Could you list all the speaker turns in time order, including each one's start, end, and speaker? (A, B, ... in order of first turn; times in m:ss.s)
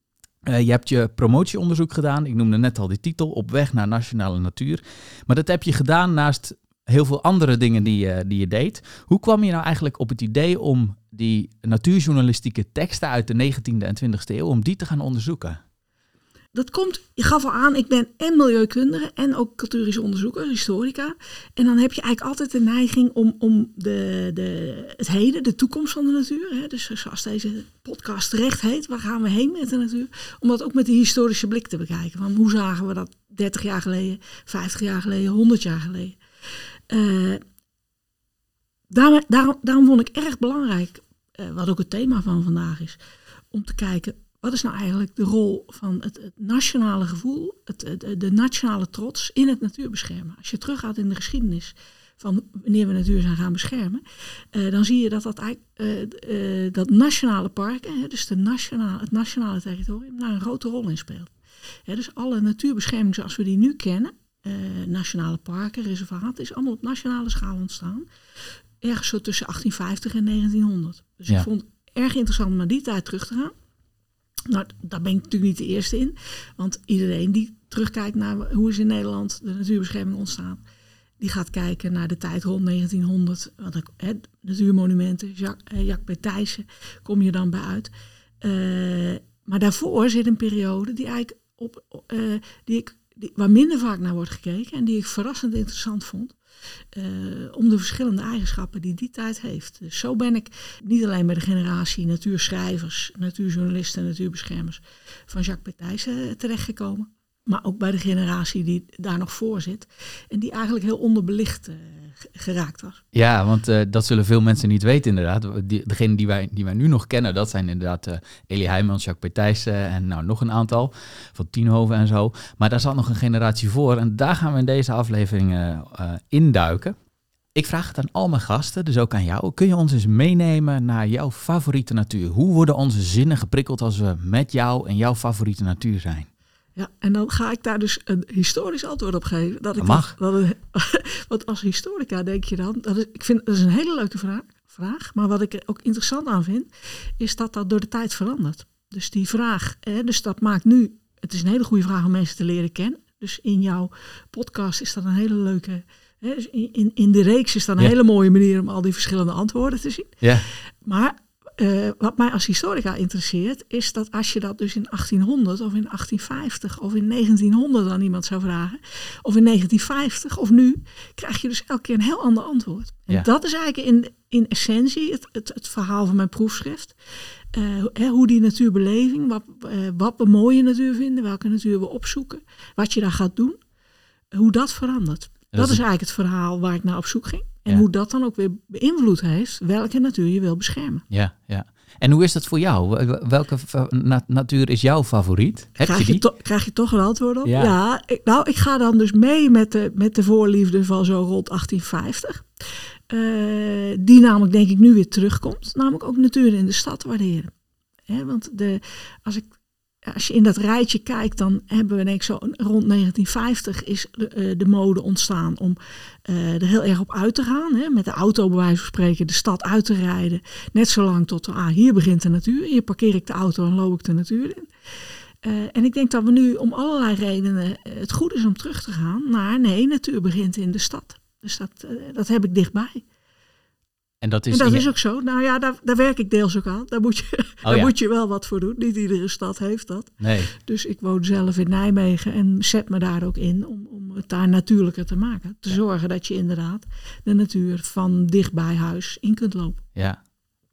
0:00.5-0:15.6 A
0:16.5-0:36.2 B
0:36.9-0:37.4 B
0:38.9-0:43.0 B
0:43.5-1:01.3 B
1:01.9-1:08.1 B
1:08.8-1:13.5 B
1:14.5-1:20.6 B
1:21.2-1:27.9 B
1:28.4-1:36.4 B
1:36.9-1:53.0 B
1:53.1-2:06.9 A
2:07.5-2:16.3 A
2:16.8-2:26.7 B
2:19.8-2:20.1 A
2:27.2-2:40.2 B
2:40.2-2:40.5 A
2:40.8-2:56.9 B
2:57.5-3:03.6 B
3:04.3-3:11.0 B
3:05.5-3:05.8 A
3:11.1-3:16.3 A
3:15.8-3:22.4 B
3:17.4-3:17.7 A
3:23.1-3:27.5 B
3:28.1-3:29.5 B
3:30.0-3:44.7 B
3:45.4-3:53.0 B
3:54.2-3:54.8 A
3:54.5-4:09.8 B
3:57.6-3:57.9 A
4:00.2-4:00.5 A